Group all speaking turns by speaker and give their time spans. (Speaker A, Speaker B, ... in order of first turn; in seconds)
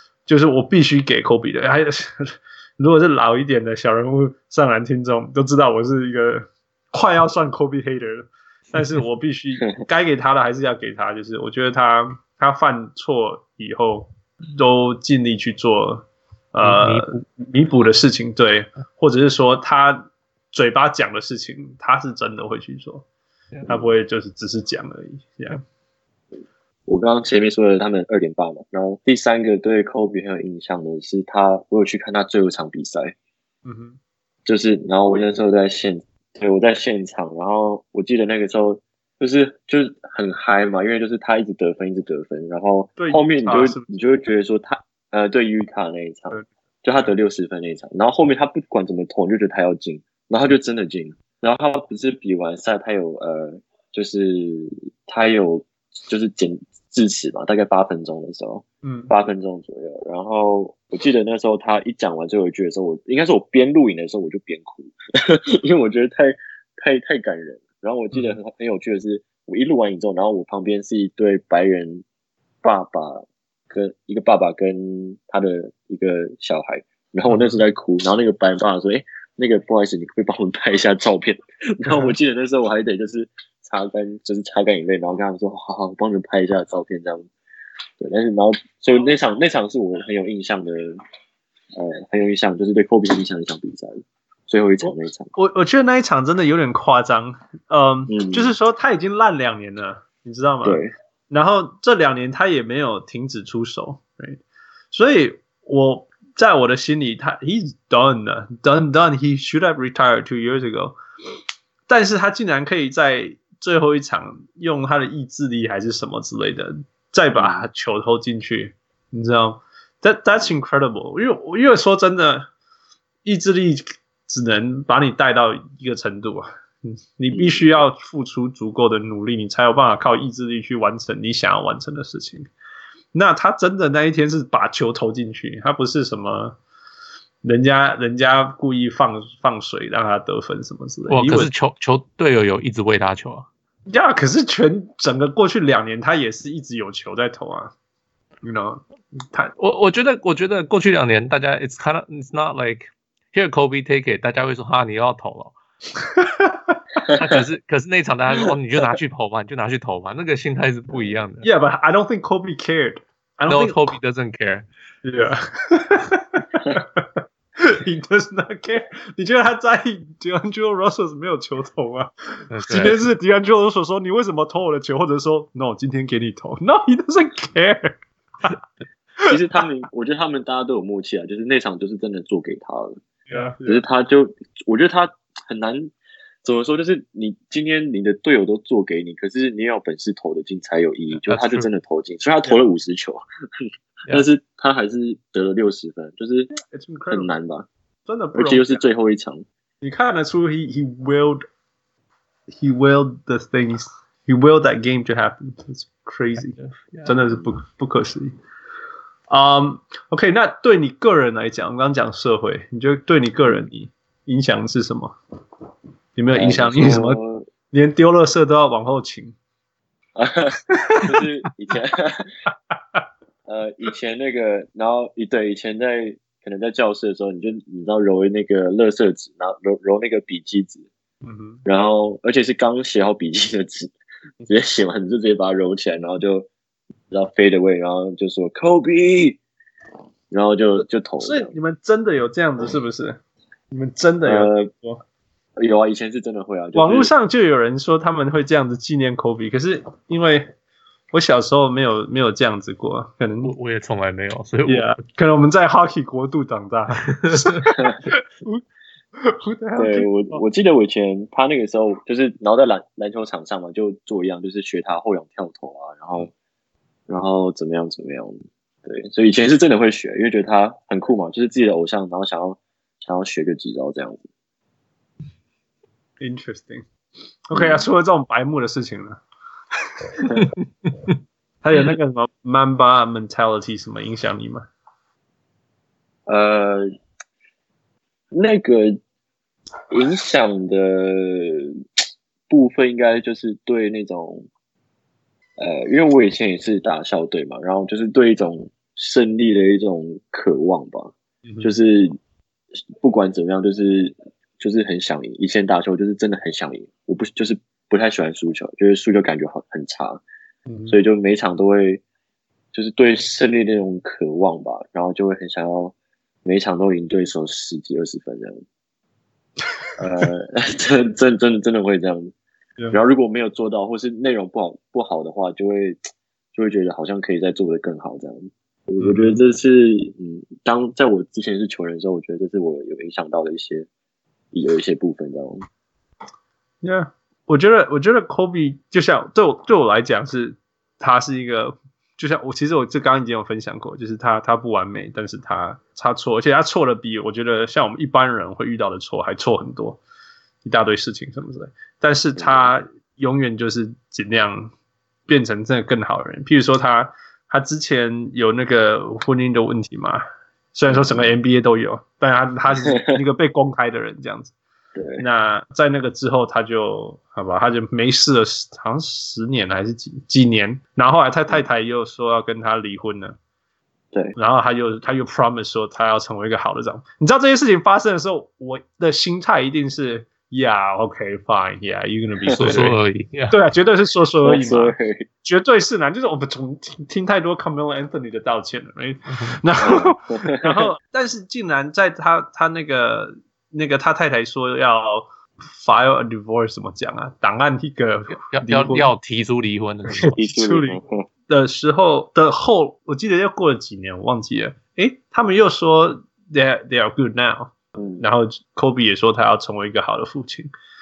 Speaker A: 0.2-23.1, 23.7-25.6, 33.6-34.0, 43.0-43.9, 58.8-59.1, 77.3-77.6, 81.9-82.1, 94.8-104.4, 104.9-111.0, 111.9-122.5, 123.2-132.5, 133.1-136.6, 137.4-141.5, 143.9-147.7, 148.4-149.5, 156.1-156.7, 161.4-163.9, 165.0-178.6, 183.3-183.8, 196.5-197.3, 198.1-198.8, 199.8-201.4, 202.5-208.3, 209.3-215.2, 216.2-217.2, 217.7-219.3, 220.7-221.2, 222.7-223.0, 231.2-231.6, 241.2-243.2, 243.7-245.0, 246.7-250.5, 251.1-253.5, 254.6-258.6, 259.1-260.4, 276.2-276.8, 277.5-280.5, 281.6-284.6, 301.4-301.7, 310.7-310.9, 329.0-329.4, 336.8-350.0, 350.6-354.7, 355.3-360.2, 360.7-364.5, 365.2-373.4, 374.4-383.0, 383.5-399.1, 400.1-410.7
Speaker B: 16.6-17.2, 141.1-143.5, 149.6-155.5, 157.1-161.5, 163.5-164.7, 172.5-173.0, 191.2-191.7, 206.5-207.1, 253.4-255.0, 257.0-257.7, 382.5-383.6, 389.3-389.6, 398.5-400.4
Speaker C: 26.9-33.1, 34.5-72.0, 72.6-87.3, 88.0-91.0, 91.7-95.3, 98.1-98.5, 100.6-100.9, 117.3-117.7, 127.3-127.8, 157.0-157.4, 179.2-182.9, 183.6-185.9, 186.4-193.2, 194.1-196.5, 197.1-197.7, 198.3-199.4, 216.3-217.5, 220.2-222.3, 223.4-230.9, 231.6-233.9, 234.4-236.5, 237.1-239.4, 240.3-241.5, 244.2-244.7, 245.6-247.1, 259.8-266.3, 267.1-274.3, 277.5-277.9, 286.3-286.9, 288.3-289.0, 289.9-294.5, 295.6-302.1, 303.0-310.2, 310.9-312.0, 312.7-318.6, 320.0-322.3, 322.9-326.0, 326.5-333.9, 334.5-335.6, 352.4-352.7, 360.9-361.3, 362.9-363.1, 364.9-365.2, 382.4-382.8, 384.4-385.3, 389.8-390.8, 400.4-401.2, 407.9-408.2